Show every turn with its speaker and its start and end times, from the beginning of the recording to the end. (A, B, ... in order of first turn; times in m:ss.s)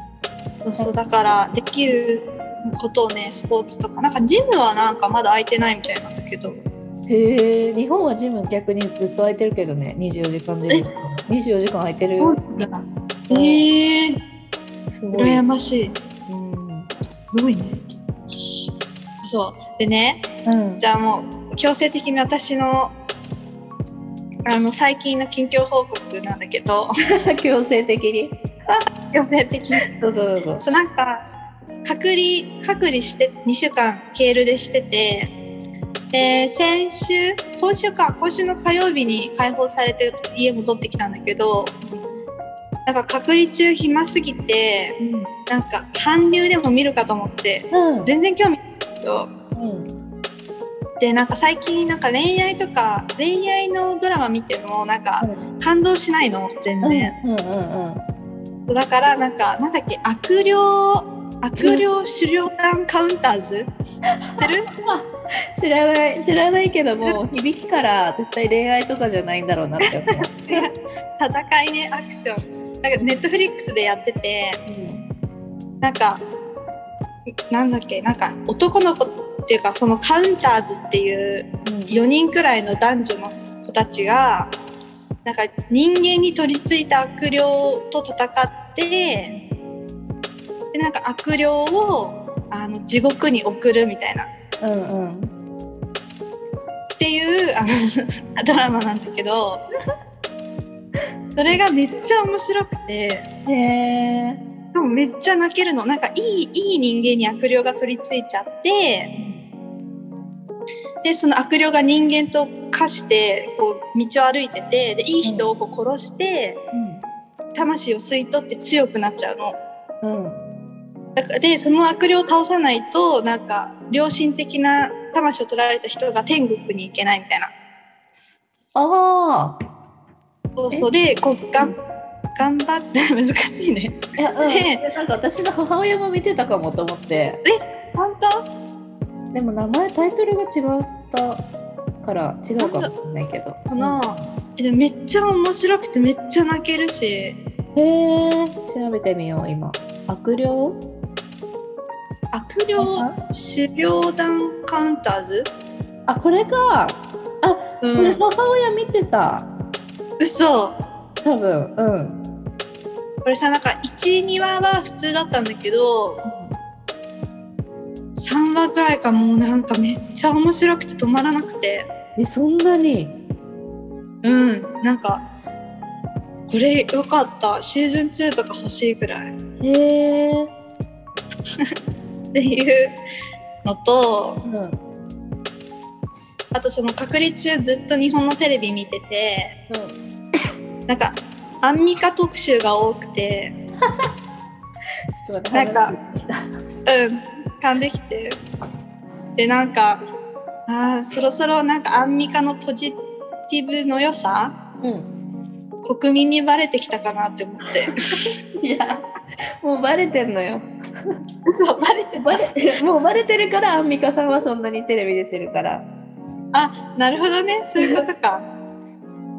0:00.6-0:06.6 A
0:07.1-0:12.4 B
0:12.2-0:14.2 A
0:13.3-0:13.7 B
0:15.0-0:15.4 B
0:15.1-0:16.0 A
0:16.3-0:16.9 B
0:17.3-0:17.8 A
0:19.2-0:20.2 A
0:20.5-0:20.8 B
0:20.8-0:23.0 A
0:24.4-0:26.9 A
0:27.1-0:28.8 B
0:29.1-0:29.8 A
0:29.8-0:30.6 B
0:30.6-0:31.2 A
0:31.8-0:35.3 A
0:36.1-0:41.8 A
0:42.9-0:45.0 A
0:45.0-0:45.3 B
0:45.5-0:49.3 A
0:47.7-0:48.1 B
0:49.6-0:49.9 B
0:51.0-0:57.1 A
0:55.2-0:55.4 B
0:56.8-0:58.0 B
0:58.7-1:03.7 A
1:01.6-1:01.9 B
1:04.1-1:10.7 B
1:04.2-1:04.7 A
1:09.8-1:14.6 A
1:14.7-1:15.0 B
1:15.8-1:16.2 A
1:17.5-1:24.5 A
1:21.6-1:22.0 B
1:25.2-1:29.3 A
1:30.7-1:34.3 A
1:34.6-1:35.3 B
1:37.0-1:39.6 A
1:41.4-1:43.3 A
1:43.5-1:44.4 B
1:44.7-1:49.1 A
1:49.2-1:49.4 B
1:51.0-1:56.6 A
1:56.7-1:57.0 B
1:57.6-1:59.6 A
2:00.0-2:00.4 B
2:01.2-2:07.5 A
2:08.8-2:09.6 B
2:10.6-2:11.8 A
2:12.4-2:14.8 A
2:14.2-2:17.4 B
2:17.4-2:18.5 A
2:19.3-2:21.4 B
2:22.0-2:24.3 B
2:22.6-2:22.9 A
2:23.7-2:27.4 A
2:27.8-2:30.8 B
2:32.3-2:35.5 A
2:32.8-2:33.2 B
2:36.1-2:39.5 B
2:37.8-2:38.2 A
2:40.2-2:40.8 A
2:41.2-2:42.2 B
2:43.2-2:46.2 A
2:46.2-2:46.6 B
2:48.2-2:51.9 A
2:52.2-2:53.2 B
2:54.2-2:55.3 A
2:56.5-2:59.3 A
2:59.6-3:00.5 B
3:02.3-3:03.0 A
3:03.6-3:04.4 A
3:04.4-3:04.8 B
3:06.5-3:09.6 A
3:09.7-3:10.0 B
3:10.9-3:13.6 A
3:15.2-3:16.5 B
3:15.5-3:16.0 A
3:16.9-3:18.4 A
3:19.4-3:20.0 A
3:20.7-3:24.6 A
3:24.8-3:25.1 B
3:25.8-3:27.9 A
3:28.6-3:29.0 B
3:29.6-3:30.7 B
3:31.5-3:32.4 A
3:32.2-3:35.9 B
3:36.5-3:38.4 A
3:37.8-3:38.0 B